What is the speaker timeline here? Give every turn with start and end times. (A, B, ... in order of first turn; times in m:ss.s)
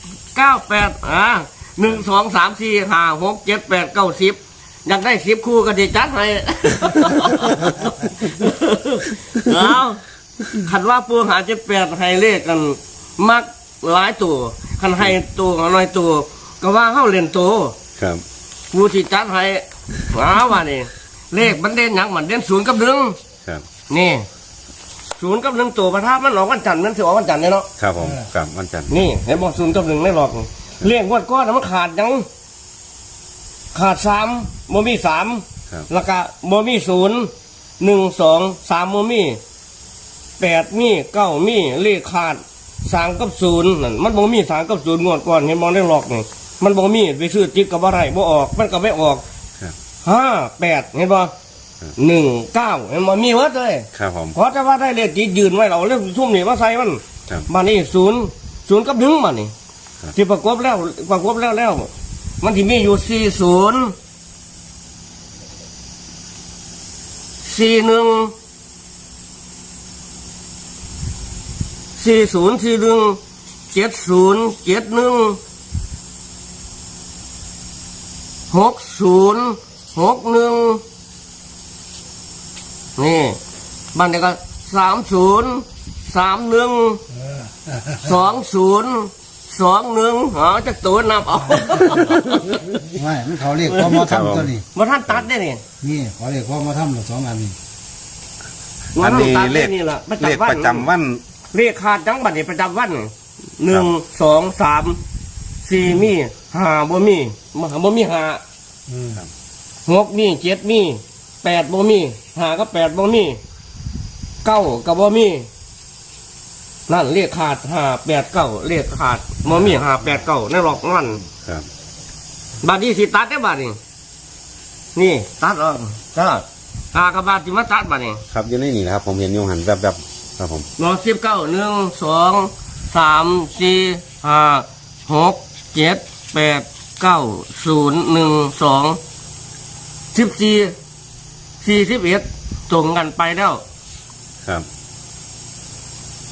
0:00.4-0:17.8 A
0:18.0-0:18.2 B
0:18.7-0:23.2 A
0:23.9-0:24.3 A
0:25.2-0:27.7 A
0:27.8-0:29.0 B
0:28.9-0:32.3 A
0:33.7-0:39.4 A
0:40.4-0:49.2 A
0:50.0-0:51.3 A
0:52.0-0:59.5 A
0:53.9-0:54.4 B
1:00.2-1:01.9 A
1:02.4-1:04.0 A
1:07.4-1:08.3 A
1:12.0-1:13.2 A
1:13.7-1:15.4 A
1:18.5-1:20.8 A
1:23.0-1:23.4 A
1:23.9-1:27.0 A
1:27.2-1:28.0 C
1:28.0-1:32.8 A
1:32.8-1:34.6 C
1:33.7-1:34.1 A
1:33.8-1:34.6 B
1:34.8-1:35.6 A
1:35.8-1:37.6 C
1:39.0-1:40.9 A
1:39.0-1:41.2 B
1:41.5-1:45.0 A
1:45.6-1:48.4 A
1:48.9-1:49.2 C
1:49.9-1:53.4 A
1:54.4-1:55.5 A
1:56.9-2:01.2 A
1:59.5-1:59.8 B
2:01.4-2:01.7 B
2:02.6-2:03.8 A
2:05.0-2:08.2 A
2:08.3-2:10.7 B
2:10.8-2:19.0 A
2:20.1-2:20.8 A
2:21.6-2:23.6 A